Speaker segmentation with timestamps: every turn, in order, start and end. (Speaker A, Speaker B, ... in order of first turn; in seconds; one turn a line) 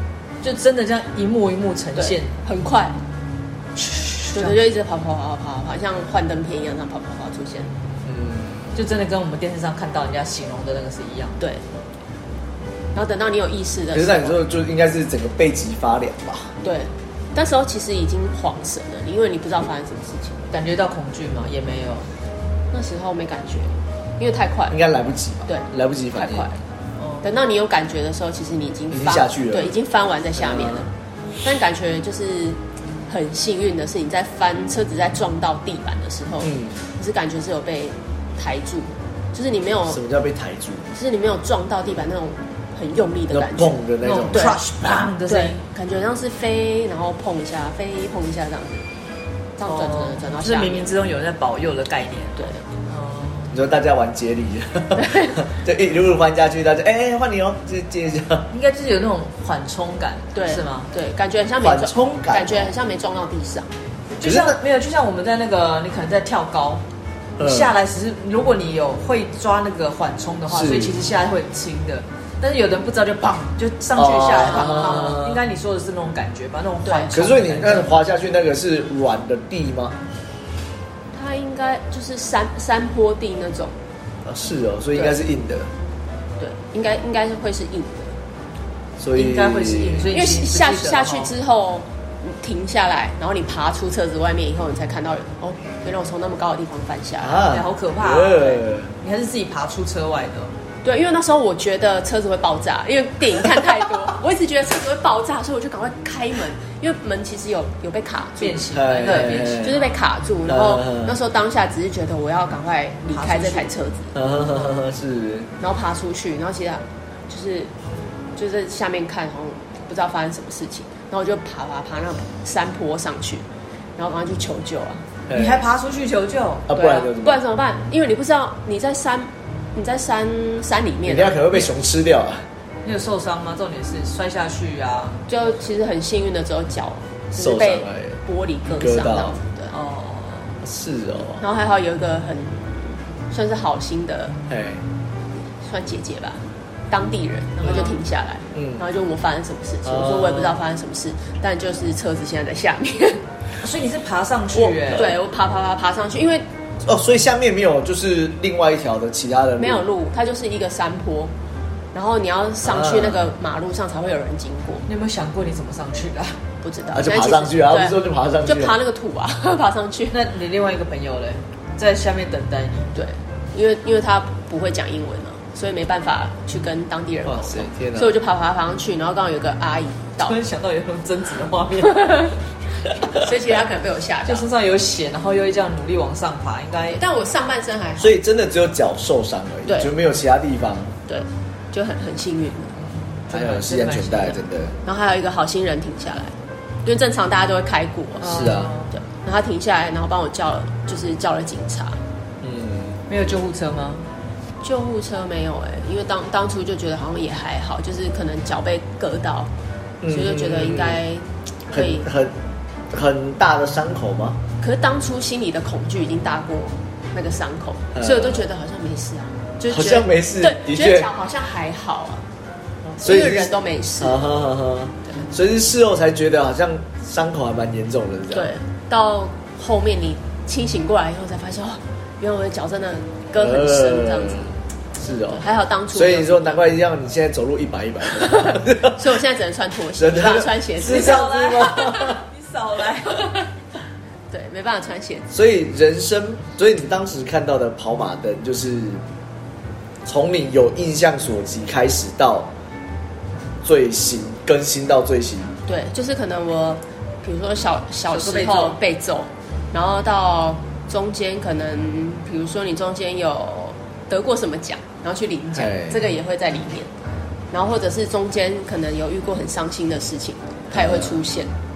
Speaker A: 0.4-2.3
Speaker B: 1.9-3.0
Speaker A: 3.8-4.6
Speaker B: 4.3-7.7
Speaker C: 8.0-8.7
Speaker A: 8.7-11.4
Speaker B: 11.4-11.6
Speaker B: 12.9-14.4
Speaker C: 13.9-16.5
Speaker B: 16.6-20.5
Speaker A: 20.5-22.1
Speaker B: 22.7-24.8
Speaker C: 24.7-26.5
Speaker B: 25.5-26.6
Speaker A: 27.0-27.2
Speaker B: 27.2-30.9
Speaker C: 28.9-29.7
Speaker C: 30.4-30.9
Speaker B: 31.4-40.0
Speaker C: 36.4-36.8
Speaker C: 39.9-40.9
Speaker B: 40.9-44.6
Speaker C: 43.3-44.6
Speaker A: 44.0-45.6
Speaker B: 45.2-48.9
Speaker B: 49.6-50.9
Speaker A: 49.6-53.5
Speaker B: 52.4-52.6
Speaker C: 53.5-58.5
Speaker B: 55.0-55.4
Speaker A: 58.5-60.9
Speaker B: 60.3-63.7
Speaker C: 61.6-62.7
Speaker A: 64.2-66.8
Speaker C: 64.2-64.6
Speaker C: 67.4-67.7
Speaker A: 67.4-77.9
Speaker C: 70.5-71.0
Speaker C: 74.0-75.4
Speaker B: 74.4-75.2
Speaker B: 76.8-77.1
Speaker C: 77.1-80.0
Speaker B: 81.1-83.8
Speaker C: 84.2-85.7
Speaker B: 86.4-88.1
Speaker C: 89.0-90.1
Speaker A: 89.1-91.3
Speaker B: 90.1-97.4
Speaker C: 97.2-98.9
Speaker A: 97.5-100.5
Speaker B: 100.8-114.7
Speaker A: 108.4-109.8
Speaker C: 108.7-109.8
Speaker C: 110.5-111.1
Speaker A: 113.1-113.7
Speaker C: 114.1-115.5
Speaker B: 115.6-117.7
Speaker B: 118.3-123.5
Speaker B: 124.0-125.0
Speaker C: 125.3-125.6
Speaker A: 125.3-126.7
Speaker C: 126.7-127.4
Speaker B: 126.7-131.7
Speaker C: 131.1-132.4
Speaker A: 132.8-135.2
Speaker B: 135.3-139.7
Speaker C: 137.3-138.2
Speaker C: 138.7-139.3
Speaker A: 139.7-140.6
Speaker C: 140.6-141.4
Speaker B: 141.4-144.4
Speaker C: 144.5-144.8
Speaker B: 145.6-153.2
Speaker A: 147.6-148.0
Speaker C: 148.5-148.8
Speaker C: 149.8-150.6
Speaker A: 153.6-155.2
Speaker B: 154.5-156.4
Speaker C: 156.8-159.8
Speaker B: 159.6-161.3
Speaker B: 161.9-164.8
Speaker C: 162.6-163.2
Speaker A: 164.9-166.4
Speaker B: 166.6-170.2
Speaker C: 166.9-168.8
Speaker A: 170.1-172.9
Speaker B: 172.9-180.3
Speaker C: 177.2-178.1
Speaker A: 180.2-182.3
Speaker B: 183.1-184.5
Speaker A: 184.2-187.0
Speaker B: 186.9-188.1
Speaker C: 188.0-190.9
Speaker B: 189.7-189.9
Speaker B: 191.1-192.7
Speaker A: 193.2-194.4
Speaker C: 193.3-194.7
Speaker B: 194.8-202.0
Speaker A: 198.2-198.9
Speaker C: 198.3-198.7
Speaker C: 202.4-203.0
Speaker A: 203.1-204.1
Speaker B: 204.6-209.5
Speaker C: 210.0-211.0
Speaker B: 210.1-212.1
Speaker C: 211.7-212.3
Speaker C: 212.9-214.4
Speaker B: 214.6-222.2
Speaker C: 217.9-218.4
Speaker C: 219.7-221.1
Speaker C: 223.0-228.5
Speaker B: 223.0-224.3
Speaker B: 228.3-234.5
Speaker C: 233.4-239.0
Speaker B: 235.3-236.6
Speaker B: 238.4-241.3
Speaker C: 240.0-242.2
Speaker A: 240.8-243.4
Speaker B: 244.3-245.3
Speaker C: 245.3-249.0
Speaker C: 250.0-252.5
Speaker C: 253.6-255.5
Speaker B: 255.7-266.9
Speaker A: 258.1-258.8
Speaker C: 265.6-266.0
Speaker B: 267.5-271.5
Speaker C: 270.7-271.1